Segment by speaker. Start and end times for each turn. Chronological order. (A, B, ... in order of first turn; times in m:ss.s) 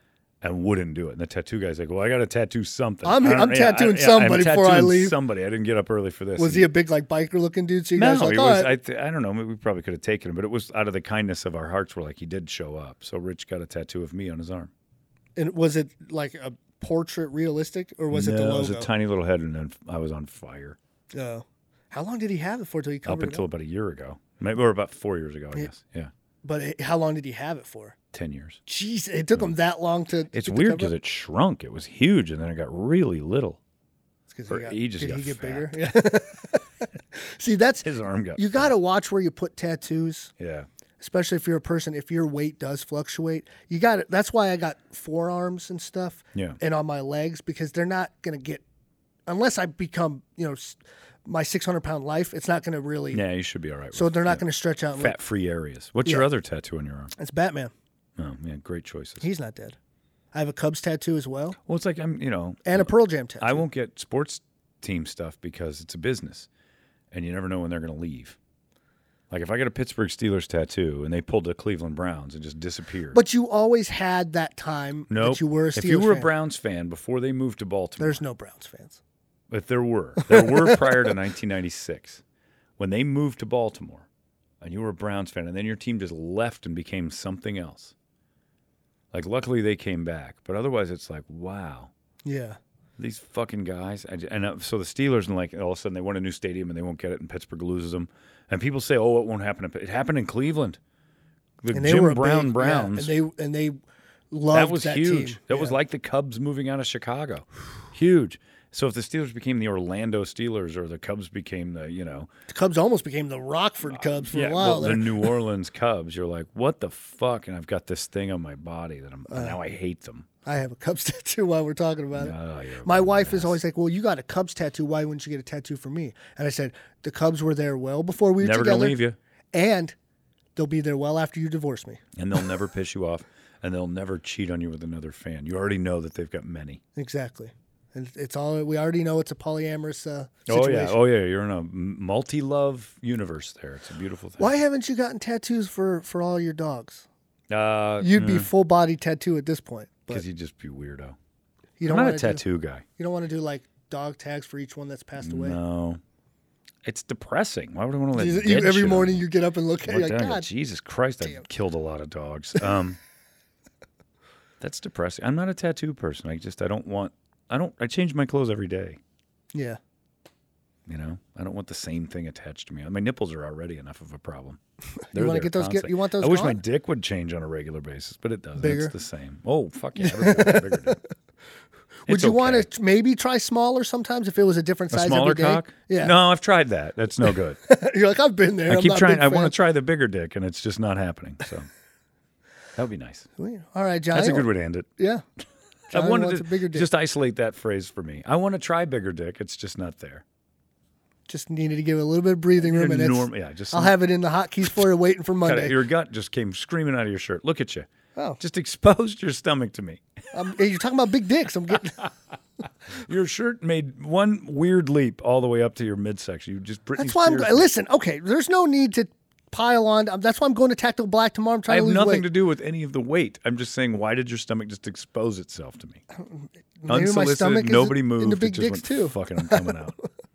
0:00.4-0:06.7 A
0:03.0-0:05.2 B
0:06.4-0:08.7 B
0:07.9-0:14.7 A
0:15.4-0:18.9 B
0:18.1-0:20.8 A
0:21.1-0:23.5 B
0:23.0-0:26.1 A
0:26.4-0:27.9 B
0:28.1-0:28.6 A
0:28.6-0:30.9 B
0:30.3-0:33.6 A
0:34.3-0:36.6 B
0:34.5-0:35.9 A
0:37.2-0:40.3 B
0:37.8-0:38.7 A
0:40.4-0:40.7 A
0:41.0-0:48.6 B
0:46.3-0:46.6 A
0:49.3-0:53.2 B
0:53.1-0:57.1 A
0:53.9-0:55.2 B
0:57.2-0:57.7 B
0:58.2-0:59.3 A
0:59.2-0:59.8 B
1:00.3-1:01.6 B
1:01.6-1:06.5 A
1:02.6-1:03.6 B
1:07.1-1:08.4 A
1:09.3-1:13.2 A
1:13.1-1:16.3 B
1:15.1-1:18.2 A
1:18.0-1:19.0 B
1:19.5-1:22.2 A
1:20.3-1:20.9 B
1:22.8-1:24.1 A
1:24.6-1:27.9 A
1:29.1-1:31.9 A
1:32.2-1:32.6 B
1:33.0-1:40.8 A
1:41.6-1:43.1 A
1:41.7-1:43.8 B
1:44.3-1:45.7 B
1:44.5-1:52.3 A
1:52.5-1:55.3 B
1:54.1-2:00.3 A
1:59.3-1:59.6 B
2:00.4-2:09.0 B
2:02.1-2:03.6 A
2:08.4-2:09.2 A
2:09.5-2:09.9 B
2:10.6-2:12.0 B
2:12.2-2:16.8 A
2:17.0-2:21.0 B
2:20.5-2:24.5 A
2:24.4-2:27.0 B
2:27.5-2:28.5 A
2:28.0-2:30.2 B
2:30.1-2:31.2 A
2:31.8-2:32.4 B
2:31.8-2:32.8 A
2:33.0-2:35.6 B
2:35.2-2:36.0 A
2:36.8-2:39.3 A
2:38.1-2:40.5 B
2:39.8-2:43.0 A
2:44.6-2:49.0 A
2:49.5-2:49.8 B
2:50.9-2:54.6 A
2:55.1-3:01.0 A
2:55.1-2:56.6 B
2:58.6-2:58.9 B
3:00.0-3:00.9 B
3:02.0-3:06.2 B
3:02.1-3:02.7 A
3:04.9-3:07.6 A
3:07.6-3:09.6 B
3:08.6-3:11.7 A
3:12.8-3:13.3 A
3:13.4-3:15.2 B
3:14.1-3:14.9 A
3:15.9-3:16.9 B
3:15.9-3:20.2 A
3:21.3-3:25.8 B
3:22.6-3:24.0 A
3:25.4-3:30.0 A
3:30.3-3:32.1 B
3:32.9-3:37.7 A
3:37.0-3:42.3 B
3:41.7-3:46.0 A
3:46.2-3:49.7 B
3:46.9-3:50.0 A